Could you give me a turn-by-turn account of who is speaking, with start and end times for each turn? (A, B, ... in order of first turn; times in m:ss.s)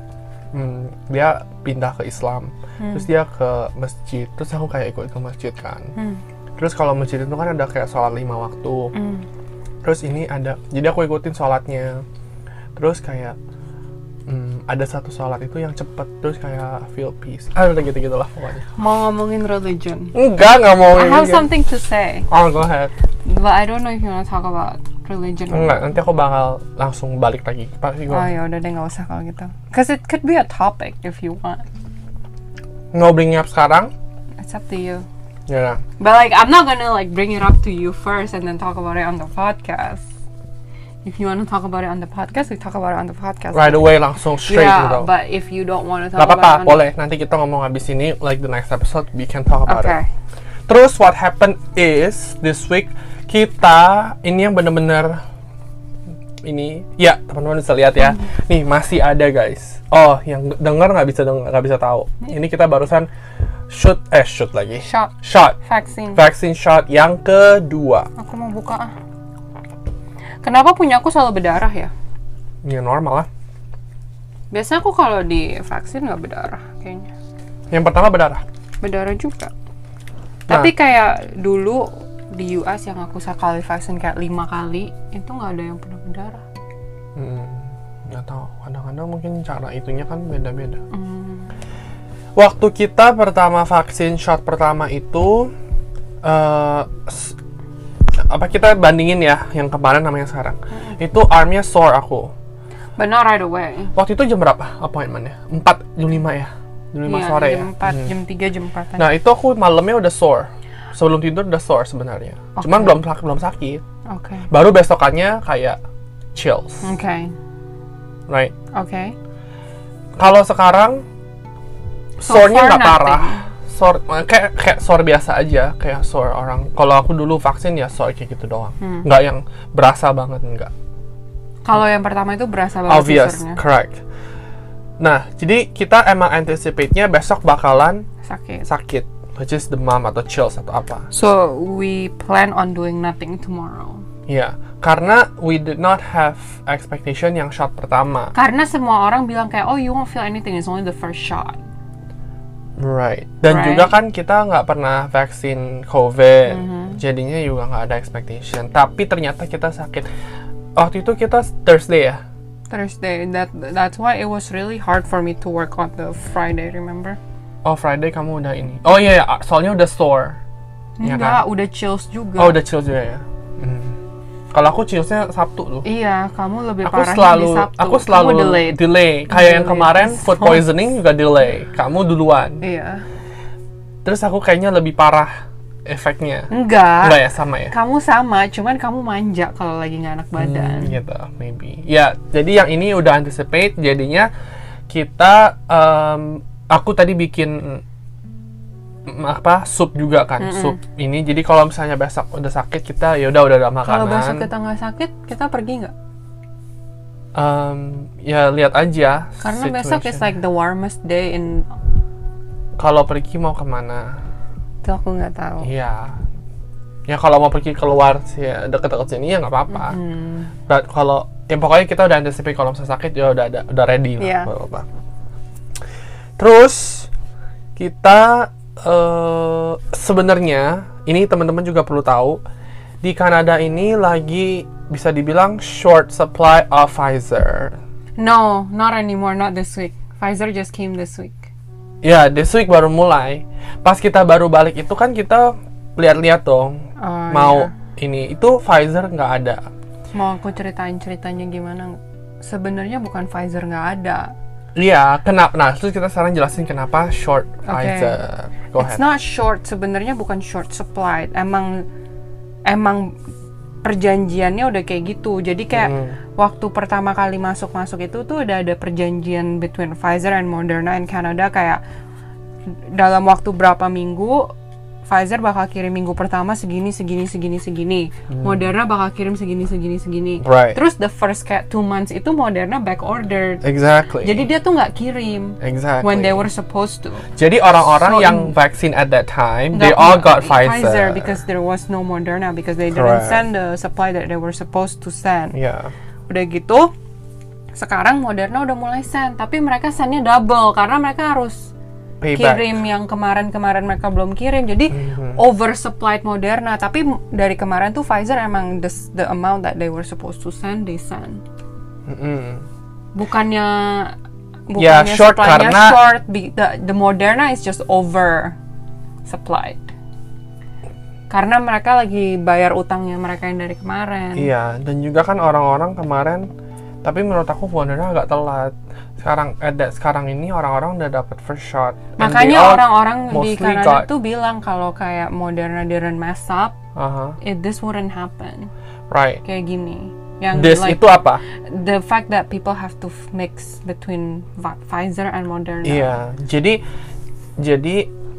0:00.5-0:05.9 A
0:02.8-0:03.1 B
0:06.0-0:06.2 B
0:06.6-0:08.9 A
0:08.9-0:09.2 B
0:09.8-0:12.0 A
0:12.8-0:13.4 A
0:14.3-0:18.7 A
0:18.7-0:20.1 B
0:20.1-0:21.5 A
0:20.9-0:22.3 B
0:22.3-0:22.9 A
0:23.2-0:25.9 B
0:25.5-0:28.3 A
0:28.1-0:31.6 B
0:32.9-0:33.9 A
0:34.4-0:35.0 B
0:35.5-0:35.8 A
0:36.0-0:40.0 B
0:41.0-0:43.9 B
0:43.5-0:45.1 A
0:44.5-0:46.8 B
0:46.2-0:50.0 A
0:49.6-0:50.1 B
0:50.7-0:55.2 A
0:56.4-1:03.1 A
0:58.0-0:58.3 B
1:03.7-1:05.6 A
1:04.8-1:06.2 B
1:06.1-1:08.1 A
1:08.2-1:08.9 B
1:10.4-1:11.9 B
1:12.6-1:13.3 A
1:14.5-1:17.1 B
1:17.7-1:18.4 A
1:18.8-1:19.5 B
1:20.5-1:26.4 B
1:27.2-1:30.8 A
1:30.9-1:31.5 B
1:32.4-1:35.5 A
1:36.2-1:37.4 A
1:38.1-1:42.3 A
1:43.0-1:43.9 B
1:43.9-1:48.1 A
1:47.0-1:49.1 B
1:49.0-1:53.8 A
1:52.5-1:53.0 B
1:54.1-1:54.5 B
1:54.5-1:55.8 A
1:56.3-1:56.8 A
1:56.8-1:57.3 B
1:58.3-1:58.5 A
1:58.7-1:59.1 B
2:00.2-2:01.0 A
2:02.2-2:10.7 A
2:02.2-2:03.4 B
2:08.8-2:09.0 B
2:11.6-2:13.6 B
2:12.9-2:14.0 A
2:15.0-2:18.0 A
2:18.2-2:18.6 B
2:18.6-2:21.1 A
2:21.1-2:24.0 B
2:24.3-2:28.3 A
2:28.3-2:31.6 B
2:32.8-2:40.1 A
2:33.5-2:33.9 B
2:36.5-2:37.0 B
2:40.7-2:42.2 A
2:42.7-2:47.2 B
2:47.6-2:50.4 A
2:51.0-2:52.6 B
2:51.0-2:51.4 A
2:52.4-2:54.0 A
2:54.5-2:55.8 A
2:55.8-3:00.7 B
2:56.8-3:02.6 A
3:02.6-3:03.0 B
3:04.0-3:05.3 A
3:05.8-3:06.5 A
3:06.5-3:07.2 B
3:07.0-3:07.7 A
3:07.7-3:11.0 B
3:10.4-3:14.3 A
3:14.9-3:17.8 A
3:19.0-3:24.5 A
3:20.4-3:20.8 B
3:23.8-3:25.9 B
3:27.3-3:30.3 A
3:29.4-3:31.7 B
3:32.8-3:34.2 A
3:34.8-3:35.7 B
3:35.6-3:36.2 A
3:37.1-3:40.0 A
3:39.7-3:40.5 B
3:40.7-3:44.9 A
3:44.2-3:44.5 B
3:46.4-3:47.1 A
3:47.8-3:52.4 A
3:53.0-3:57.8 A
3:58.2-4:01.5 B
4:02.0-4:09.7 A
4:07.0-4:07.7 B
4:10.1-4:14.3 B
4:14.8-4:19.0 A
4:17.6-4:18.2 B
4:18.8-4:21.9 B
4:22.6-4:23.2 B
4:23.8-4:31.8 B
4:25.7-4:26.2 A
4:32.9-4:34.5 B
4:35.0-4:43.6 B
4:38.3-4:38.7 A
4:40.4-4:40.8 A
4:43.6-4:44.4 A
4:44.2-4:47.3 B
4:45.6-4:46.4 A
4:47.4-4:51.4 A
4:47.8-4:48.5 B
4:49.7-4:55.6 B
4:52.9-4:53.4 A
4:55.5-4:55.9 A
4:56.3-4:56.9 B
4:57.7-5:01.7 B
5:02.2-5:02.7 A
5:02.3-5:11.4 B
5:04.9-5:05.4 A
5:12.0-5:12.6 A
5:13.1-5:14.1 B
5:14.7-5:18.6 B
5:14.8-5:16.0 A
5:19.2-5:19.9 B
5:21.3-5:24.5 B
5:24.4-5:26.5 A
5:27.0-5:34.1 A
5:32.2-5:36.8 B
5:37.0-5:37.4 A
5:37.4-5:38.7 B
5:39.1-5:39.4 A
5:39.4-5:46.2 B
5:40.5-5:41.4 A
5:45.8-5:46.8 A
5:47.6-5:48.1 A